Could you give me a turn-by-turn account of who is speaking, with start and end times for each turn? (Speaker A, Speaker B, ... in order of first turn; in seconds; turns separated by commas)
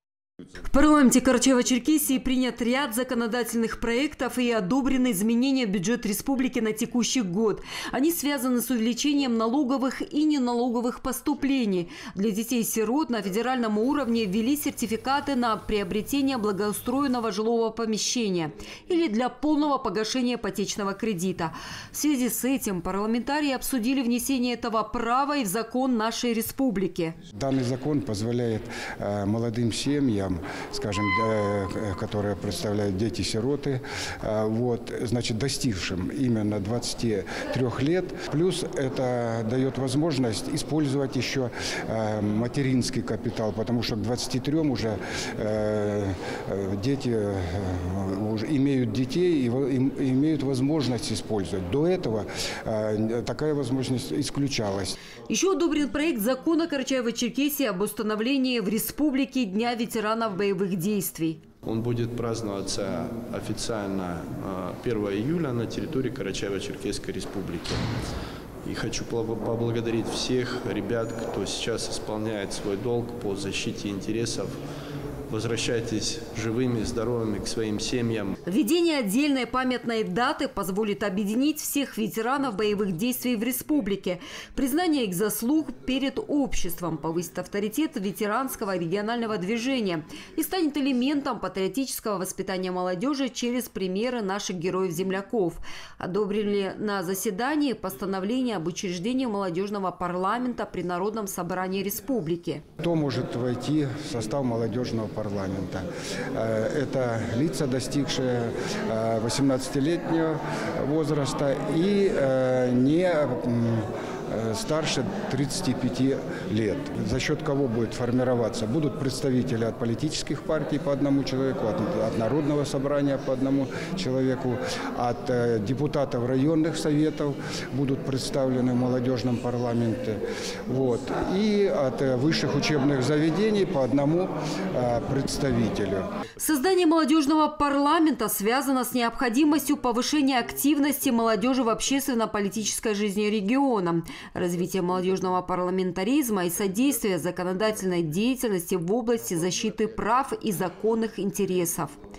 Speaker A: 0.6-27.1, Speaker B: 27.3-55.0, Speaker A: 55.3-61.4, Speaker C: 61.6-67.9, Speaker C: 68.7-74.6, Speaker C: 75.3-78.4, Speaker A: 78.5-102.6, Speaker B: 102.8-136.1, Speaker A: 136.4-152.0